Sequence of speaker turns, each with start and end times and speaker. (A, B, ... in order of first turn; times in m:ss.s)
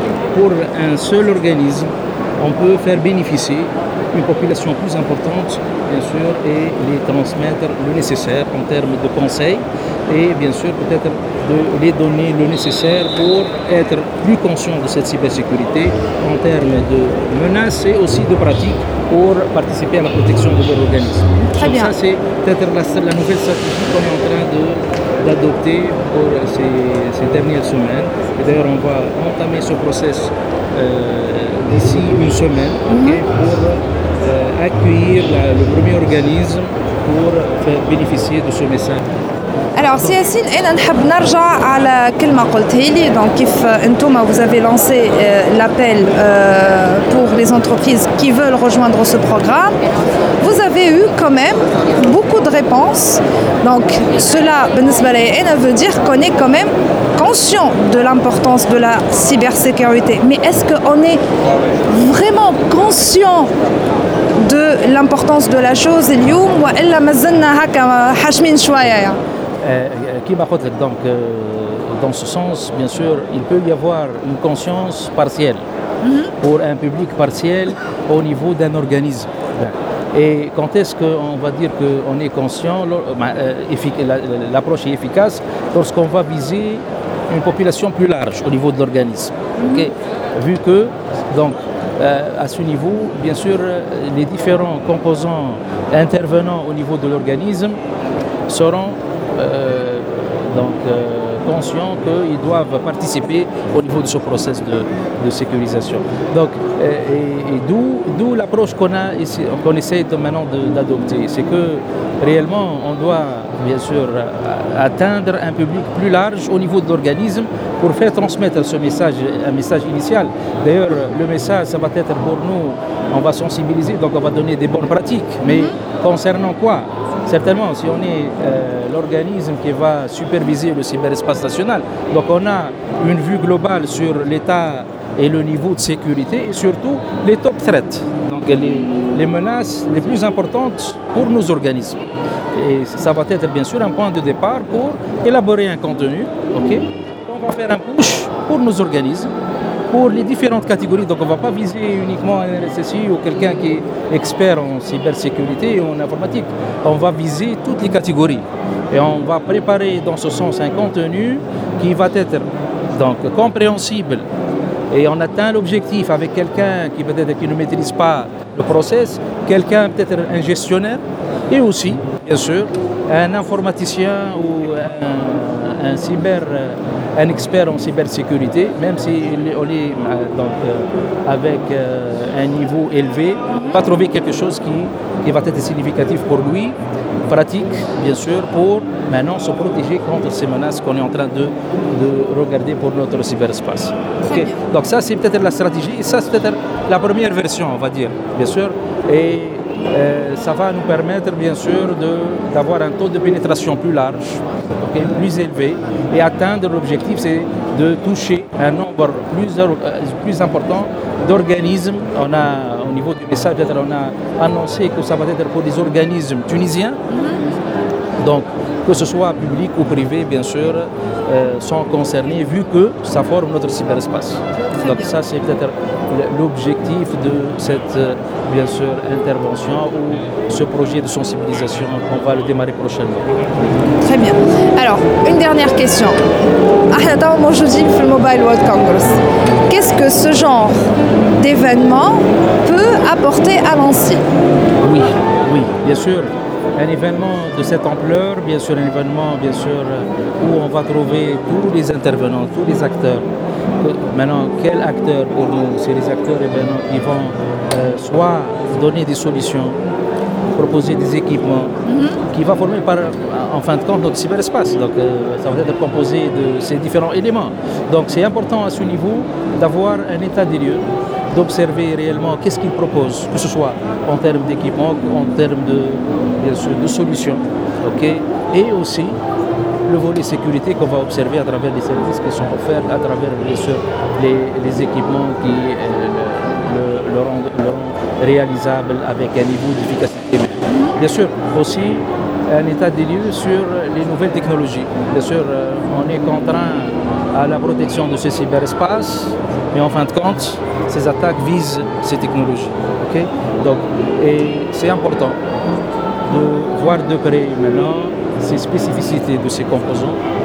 0:00.3-0:39.1 A
0:21.5-0:22.0 B
0:32.9-0:33.2 B
0:39.8-0:49.8 B
0:50.4-1:01.2 B
1:01.9-1:03.5 B
1:04.4-1:09.2 B
1:09.6-1:15.6 A
1:16.0-1:16.3 B
1:16.4-1:37.8 A
1:29.6-1:29.9 B
1:38.5-2:29.3 A
2:05.4-2:05.8 B
2:29.9-2:44.3 A
2:44.9-3:37.0 A
3:03.5-3:03.8 B
3:14.2-3:14.6 B
3:37.1-3:37.5 B
3:38.2-3:53.4 A
3:44.7-3:45.2 B
3:54.0-3:56.2 B
3:56.9-4:00.8 B
4:01.4-4:04.2 B
4:04.8-4:13.3 A
4:13.8-4:19.8 A
4:20.6-4:21.7 A
4:21.9-4:22.2 B
4:22.3-4:39.2 A
4:39.9-5:05.4 A
4:50.7-4:50.9 B
5:06.2-5:10.2 A